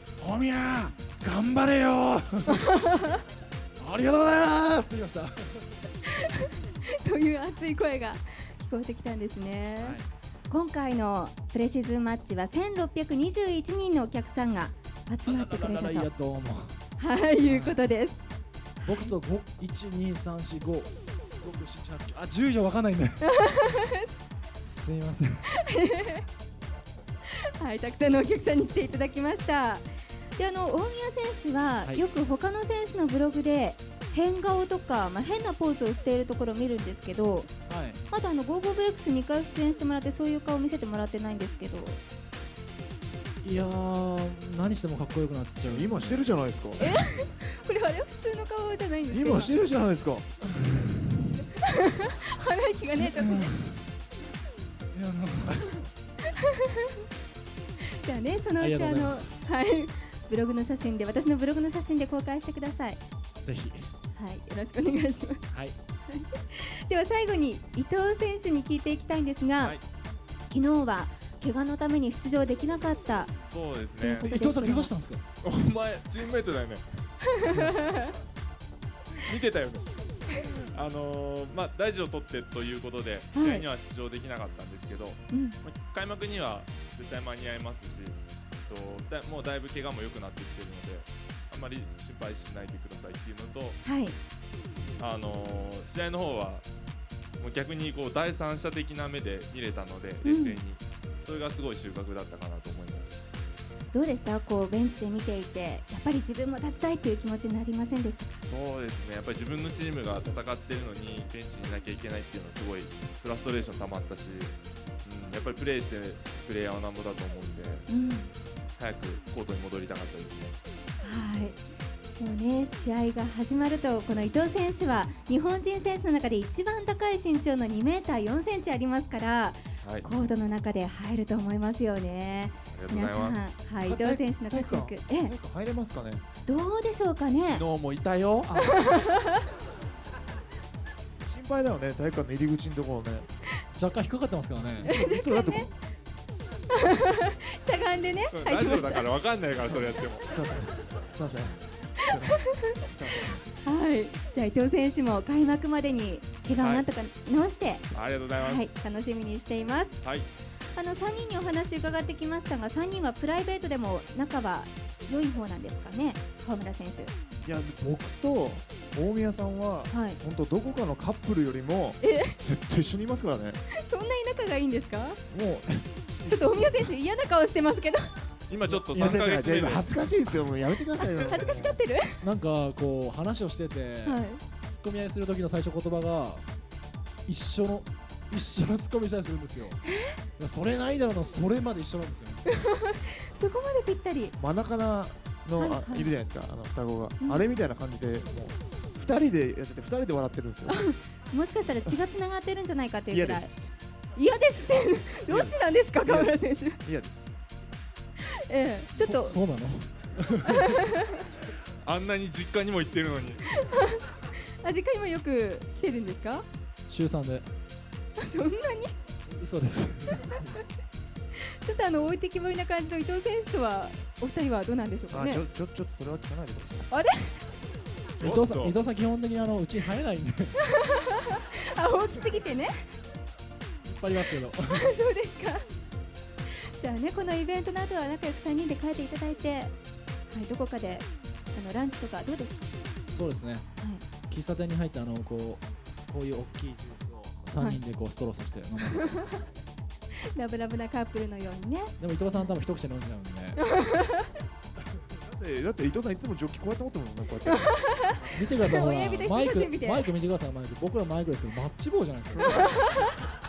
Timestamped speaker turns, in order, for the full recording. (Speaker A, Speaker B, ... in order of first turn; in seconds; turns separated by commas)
Speaker A: 0.2-3.0, Speaker B: 2.6-3.2, Speaker A: 3.8-5.8, Speaker B: 6.1-10.0, Speaker A: 9.8-10.1, Speaker B: 10.5-16.1, Speaker A: 15.2-16.8, Speaker B: 17.0-18.2, Speaker A: 17.5-17.8, Speaker A: 18.8-23.3, Speaker B: 23.2-24.1, Speaker A: 24.6-25.5, Speaker B: 25.5-26.3, Speaker B: 27.3-37.5, Speaker A: 37.7-38.0, Speaker B: 38.1-42.0, Speaker A: 43.4-46.3, Speaker C: 45.6-46.8, Speaker B: 46.8-49.5, Speaker C: 49.1-50.3, Speaker A: 50.7-51.1, Speaker B: 51.6-53.5, Speaker A: 53.0-53.8, Speaker A: 54.9-55.9, Speaker B: 56.2-57.0, Speaker B: 57.8-63.0, Speaker A: 58.6-59.5, Speaker A: 63.5-63.9, Speaker B: 64.2-65.5, Speaker B: 66.1-69.8, Speaker B: 70.5-73.3, Speaker D: 73.5-74.3, Speaker B: 74.0-74.9, Speaker A: 74.2-75.2, Speaker D: 75.4-76.8, Speaker B: 77.4-78.1, Speaker D: 79.2-93.8, Speaker B: 83.3-83.7, Speaker B: 85.3-85.6, Speaker B: 93.8-94.2, Speaker D: 95.0-96.7, Speaker D: 97.4-103.2, Speaker B: 100.2-100.6, Speaker B: 103.9-108.4, Speaker D: 108.4-117.9, Speaker B: 117.9-118.3, Speaker D: 118.8-120.6, Speaker B: 121.0-121.6, Speaker B: 122.2-135.3, Speaker D: 129.8-130.1, Speaker D: 132.7-133.4, Speaker C: 133.9-136.2, Speaker B: 136.5-137.7, Speaker D: 137.4-138.5, Speaker C: 138.5-138.9, Speaker B: 138.6-139.4, Speaker C: 141.2-143.3, Speaker A: 143.7-144.9, Speaker C: 144.6-145.7, Speaker B: 144.9-145.7, Speaker B: 146.7-149.1, Speaker D: 148.3-150.3, Speaker C: 150.2-153.4, Speaker B: 152.0-152.8, Speaker B: 153.6-160.0, Speaker D: 156.5-156.9, Speaker D: 157.9-158.7, Speaker D: 160.0-160.3, Speaker B: 160.8-167.1, Speaker C: 167.4-173.6, Speaker B: 169.9-170.2, Speaker B: 172.0-172.4, Speaker B: 173.7-175.2, Speaker C: 175.3-176.9, Speaker B: 176.3-178.2, Speaker D: 178.5-179.9, Speaker A: 178.7-179.2, Speaker C: 178.9-181.8, Speaker B: 180.9-182.2, Speaker A: 182.2-186.5, Speaker B: 184.1-184.4, Speaker A: 187.3-189.8, Speaker A: 190.4-192.5, Speaker B: 192.5-194.3, Speaker C: 194.4-200.8, Speaker B: 195.6-196.1, Speaker B: 197.2-197.5, Speaker B: 200.7-203.5, Speaker C: 203.1-203.7, Speaker B: 204.2-206.8, Speaker C: 205.3-207.3, Speaker B: 208.2-209.4, Speaker A: 208.9-210.7, Speaker B: 210.5-211.2, Speaker D: 211.8-213.6, Speaker B: 213.6-216.5, Speaker A: 216.9-217.5, Speaker B: 218.2-219.0, Speaker A: 219.3-220.5, Speaker B: 221.3-225.4, Speaker C: 225.1-226.9, Speaker B: 226.9-227.5, Speaker D: 228.2-228.8, Speaker A: 228.2-230.6, Speaker B: 230.7-232.7, Speaker A: 233.8-234.9, Speaker B: 234.7-235.7, Speaker B: 236.5-239.7, Speaker B: 240.3-242.7, Speaker A: 243.1-243.7, Speaker A: 244.3-249.3, Speaker B: 250.2-252.5, Speaker A: 252.0-253.6, Speaker B: 253.6-254.4, Speaker C: 255.2-257.8, Speaker B: 257.5-260.1, Speaker A: 258.2-263.0, Speaker B: 262.4-263.1